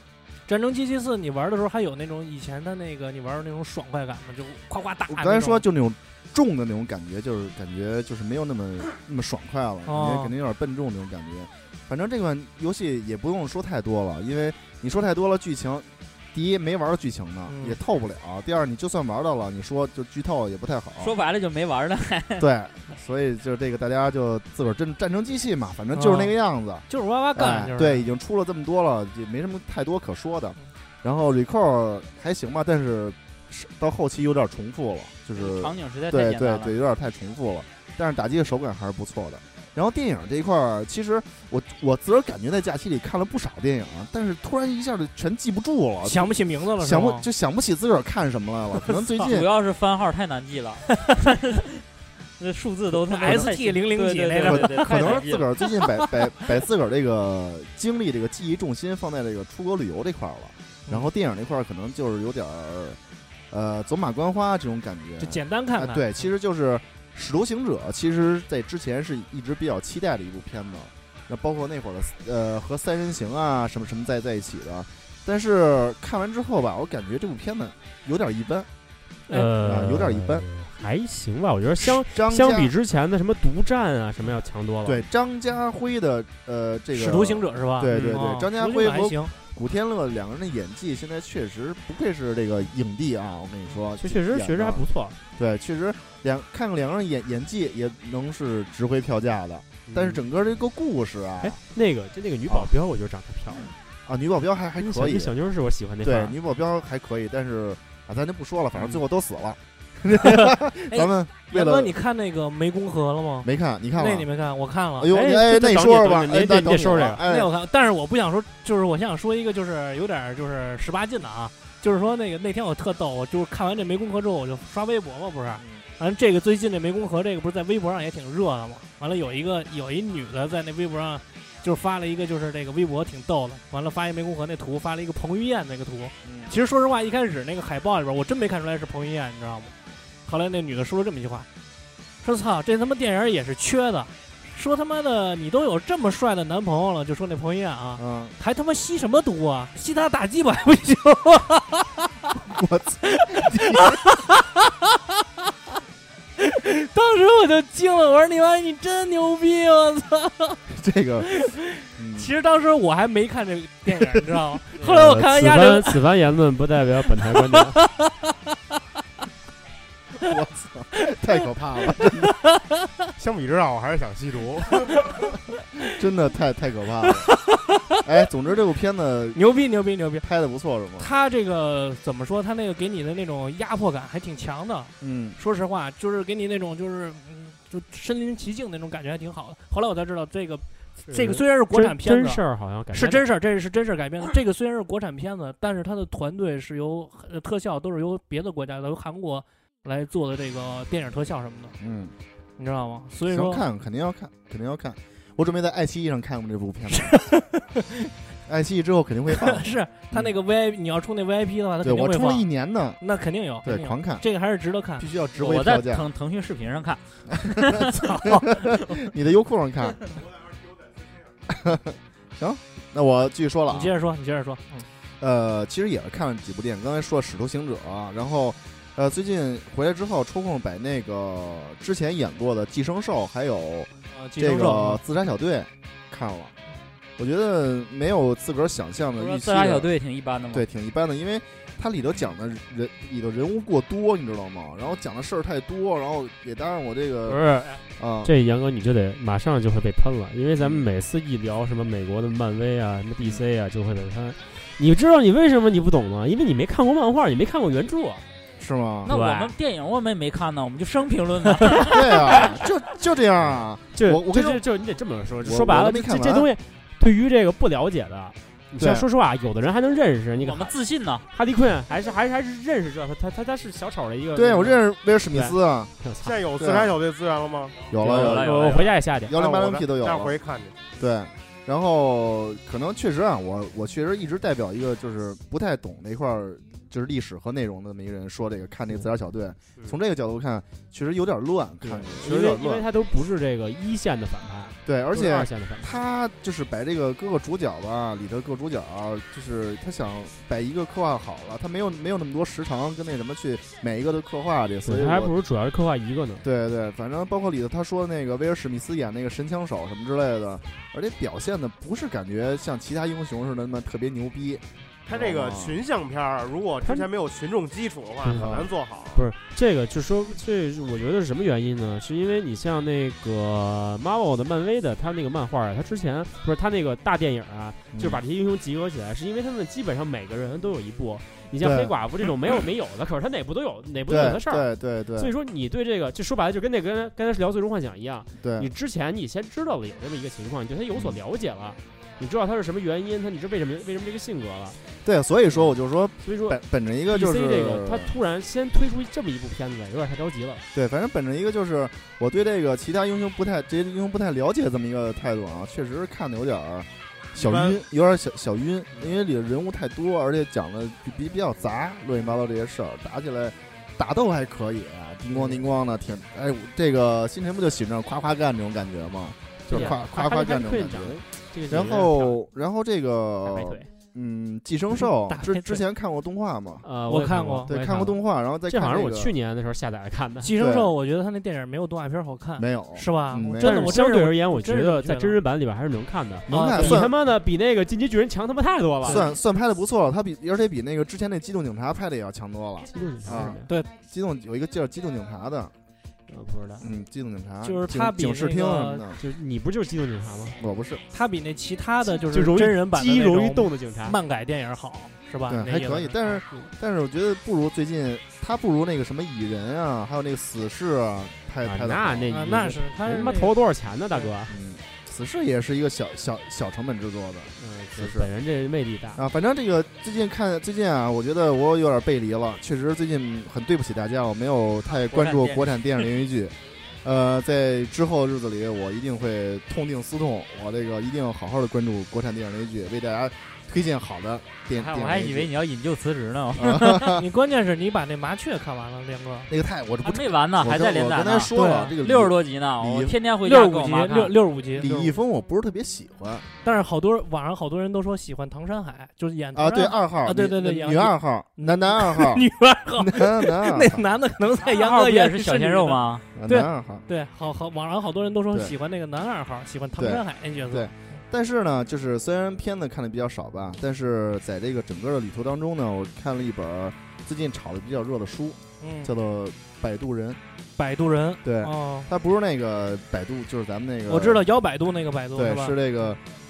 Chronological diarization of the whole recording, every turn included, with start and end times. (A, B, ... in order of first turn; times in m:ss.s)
0:00.5-0:05.6 A
0:05.1-0:21.1 B
0:09.8-0:10.3 A
0:17.5-0:17.8 A
0:21.0-0:22.5 C
0:22.4-0:49.5 B
0:25.9-0:26.3 A
0:26.9-0:28.1 A
0:35.4-0:36.7 C
0:46.0-0:47.2 A
0:49.2-0:51.8 C
0:52.4-0:56.0 C
0:52.9-0:55.3 A
0:54.4-1:03.0 B
1:03.5-1:18.7 B
1:05.2-1:06.3 A
1:19.3-1:19.6 A
1:19.3-1:25.0 D
1:19.6-1:20.4 B
1:21.8-1:22.7 B
1:24.8-1:34.8 B
1:26.9-1:29.3 A
1:27.9-1:28.2 D
1:34.0-1:35.2 D
1:35.4-1:41.6 B
1:39.9-1:40.2 D
1:41.4-1:43.7 D
1:44.0-1:45.3 B
1:44.8-1:46.4 D
1:46.0-1:51.9 B
1:50.2-1:55.1 A
1:53.4-1:54.3 B
1:55.0-1:57.5 B
1:55.1-1:57.2 D
1:57.2-2:19.7 A
2:16.2-2:16.5 B
2:20.2-2:21.5 A
2:22.2-2:32.1 A
2:28.0-2:28.3 B
2:32.4-2:34.0 B
2:33.1-2:35.2 A
2:36.4-2:40.6 A
2:40.7-2:41.4 B
2:41.2-2:46.0 A
2:42.0-2:42.3 B
2:44.8-2:47.8 D
2:47.2-2:48.2 A
2:50.2-2:52.3 B
2:51.0-2:51.4 A
2:51.9-2:53.1 A
2:53.2-2:55.0 E
2:55.9-2:57.3 B
2:57.0-2:58.1 A
2:58.0-2:59.4 B
2:59.3-3:00.2 A
3:00.2-3:01.1 B
3:01.0-3:21.7 A
3:05.0-3:05.4 B
3:11.1-3:13.2 D
3:21.8-3:22.1 B
3:22.6-3:23.6 A
3:23.3-3:27.2 B
3:26.9-3:28.1 A
3:28.5-3:30.4 B
3:29.3-3:32.4 A
3:31.8-3:33.0 B
3:33.0-3:35.1 A
3:33.6-3:34.2 B
3:35.0-3:36.0 B
3:35.4-3:38.0 C
3:37.3-3:40.1 B
3:37.9-3:38.5 A
3:41.5-3:43.9 B
3:43.7-3:44.9 A
3:45.2-3:56.5 B
3:54.1-3:55.0 A
3:57.2-3:59.9 B
3:59.2-4:00.7 C
4:00.5-4:07.4 B
4:07.3-4:18.2 D
4:08.0-4:08.3 B
4:10.6-4:10.8 B
4:18.6-4:19.1 B
4:19.0-4:22.6 C
4:19.1-4:19.5 D
4:21.8-4:24.6 B
4:23.9-4:30.7 D
4:25.4-4:26.5 B
4:28.8-4:29.1 B
4:30.4-4:31.2 C
4:31.3-4:36.4 D
4:34.3-4:35.9 B
4:36.2-4:37.9 E
4:36.6-4:37.0 B
4:37.9-4:38.6 B
4:38.0-4:39.3 D
4:38.0-4:39.0 C
4:39.2-4:40.3 B
4:39.3-4:40.8 E
4:41.0-4:52.8 B
4:51.8-4:56.0 D
4:54.8-5:05.3 B
5:04.8-5:06.4 D
5:06.4-5:15.8 B
5:15.0-5:19.2 E
5:18.2-5:44.8 D
5:18.3-5:18.7 B
5:27.9-5:28.2 B
5:31.6-5:31.9 B
5:34.1-5:35.3 B
5:38.4-5:38.7 B
5:40.9-5:41.2 B
5:45.0-5:48.1 B
5:45.5-5:50.6 D
5:50.7-6:16.9 B
5:57.3-5:57.8 E
6:05.3-6:05.6 D
6:09.6-6:12.4 D
6:13.4-6:13.9 D
6:14.9-6:15.8 A
6:16.8-6:20.6 D
6:17.0-6:17.7 A
6:17.6-6:19.3 B
6:20.4-6:25.4 A
6:20.6-6:20.9 B
6:22.6-6:24.0 B
6:23.6-6:29.3 D
6:26.5-6:27.1 A
6:26.5-6:27.1 B
6:29.0-6:35.7 B
6:32.9-6:33.7 D
6:33.7-6:33.9 A
6:36.3-6:36.9 D
6:36.8-6:39.2 B
6:37.6-6:39.0 A
6:39.2-6:40.6 D
6:40.6-6:41.0 B
6:41.1-6:46.7 A
6:42.3-6:44.2 D
6:45.5-6:52.3 B
6:51.6-6:54.5 D
6:52.3-6:53.6 A
6:54.1-6:54.3 A
6:54.5-6:58.3 B
6:57.6-6:59.2 D
6:59.2-7:15.5 B
7:04.9-7:06.0 C
7:14.7-7:17.1 C
7:16.6-7:17.2 B
7:17.0-7:19.5 A
7:19.5-7:23.1 B
7:20.0-7:24.4 C
7:21.5-7:21.9 A
7:23.4-7:25.1 A
7:24.7-7:26.5 B
7:26.6-7:40.9 A
7:29.5-7:32.4 B
7:33.0-7:34.0 B
7:34.6-7:36.2 C
7:36.4-7:37.0 B
7:40.0-7:50.4 B
7:48.8-7:49.1 A
7:50.8-7:52.1 A
7:51.4-7:54.4 B
7:54.1-7:56.1 A
7:55.3-7:56.2 B